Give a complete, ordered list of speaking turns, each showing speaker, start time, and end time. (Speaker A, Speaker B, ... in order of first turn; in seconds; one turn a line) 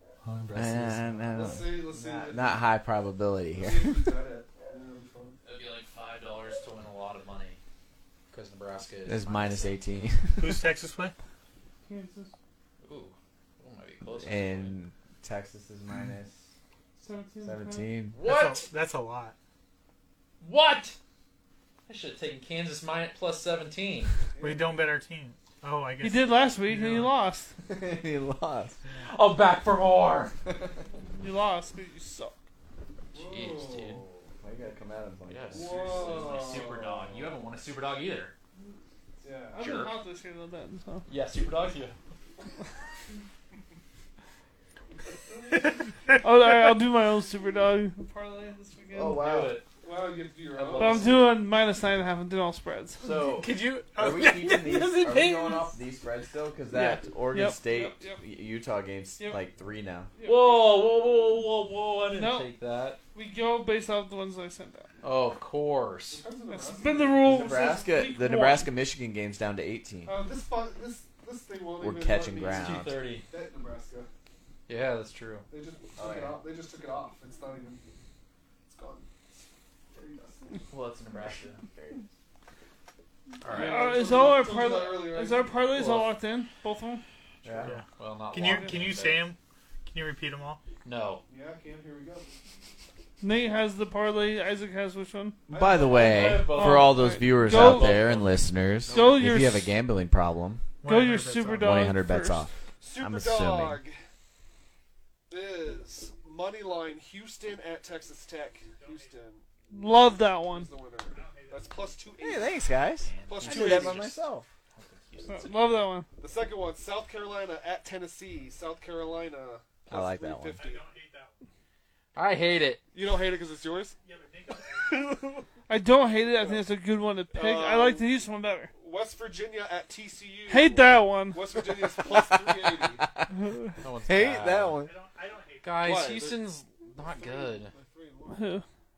Speaker A: 0.2-1.2
Speaker B: 0.5-4.0
Speaker C: 1.3-2.6
Speaker C: 3.6-5.4
Speaker D: 5.4-7.6
Speaker D: 8.3-9.8
Speaker B: 9.1-10.6
Speaker A: 10.4-11.1
Speaker E: 11.8-12.3
Speaker D: 12.8-14.8
Speaker B: 14.2-16.5
Speaker E: 17.0-17.9
Speaker B: 17.4-18.1
Speaker D: 18.1-18.7
Speaker A: 18.2-19.3
Speaker D: 20.4-21.0
Speaker D: 21.9-24.2
Speaker C: 24.3-24.9
Speaker A: 24.4-27.1
Speaker E: 26.0-27.5
Speaker B: 27.6-28.8
Speaker D: 29.0-30.3
Speaker E: 31.1-32.4
Speaker C: 33.1-34.3
Speaker D: 33.2-34.0
Speaker B: 34.4-36.1
Speaker D: 35.3-38.3
Speaker C: 35.5-37.3
Speaker C: 39.2-39.6
Speaker E: 39.5-41.1
Speaker D: 39.6-39.9
Speaker D: 41.1-42.0
Speaker E: 46.2-49.2
Speaker B: 48.9-49.6
Speaker D: 49.0-49.6
Speaker C: 49.8-51.3
Speaker D: 50.5-51.3
Speaker E: 50.7-53.0
Speaker B: 53.0-60.1
Speaker A: 53.2-55.5
Speaker E: 56.7-58.2
Speaker E: 60.2-60.6
Speaker D: 60.2-63.0
Speaker E: 62.1-62.5
Speaker E: 63.1-64.9
Speaker D: 65.0-66.2
Speaker C: 66.1-67.4
Speaker E: 66.5-68.7
Speaker B: 67.2-70.2
Speaker C: 70.0-74.1
Speaker B: 71.8-73.0
Speaker D: 72.5-73.2
Speaker D: 74.7-75.5
Speaker C: 75.5-77.8
Speaker B: 76.0-76.4
Speaker C: 78.7-79.1
Speaker C: 79.9-80.7
Speaker D: 80.7-81.6
Speaker B: 81.6-82.1
Speaker D: 83.4-84.0
Speaker C: 83.5-86.1
Speaker E: 83.5-87.0
Speaker B: 87.4-87.8
Speaker A: 87.6-90.6
Speaker D: 88.0-89.3
Speaker E: 88.4-88.8
Speaker D: 90.8-91.2
Speaker C: 91.3-92.3
Speaker E: 93.2-95.4
Speaker C: 95.5-96.4
Speaker B: 95.5-100.6
Speaker D: 95.9-99.2
Speaker E: 96.5-98.0
Speaker C: 98.9-99.3
Speaker E: 98.9-99.6
Speaker A: 100.8-101.8
Speaker E: 100.8-102.5
Speaker B: 101.5-103.8
Speaker C: 102.8-104.0
Speaker C: 105.3-109.4
Speaker A: 108.7-109.2
Speaker E: 109.7-110.7
Speaker C: 110.5-112.7
Speaker A: 111.1-111.9
Speaker B: 112.2-114.5
Speaker D: 113.0-114.2
Speaker C: 113.3-114.1
Speaker D: 114.7-115.8
Speaker E: 115.3-116.1
Speaker C: 116.2-120.8
Speaker B: 119.9-120.6
Speaker A: 120.5-121.4
Speaker D: 122.1-122.8
Speaker C: 122.9-124.0
Speaker A: 124.0-125.1
Speaker E: 125.7-128.7
Speaker C: 126.3-126.7
Speaker C: 127.3-128.1
Speaker C: 128.7-133.0
Speaker E: 130.5-131.4
Speaker B: 131.9-133.3
Speaker E: 133.3-133.7
Speaker D: 133.8-134.8
Speaker B: 134.0-134.9
Speaker A: 134.8-135.9
Speaker D: 135.6-137.7
Speaker C: 135.8-138.5
Speaker E: 138.3-138.6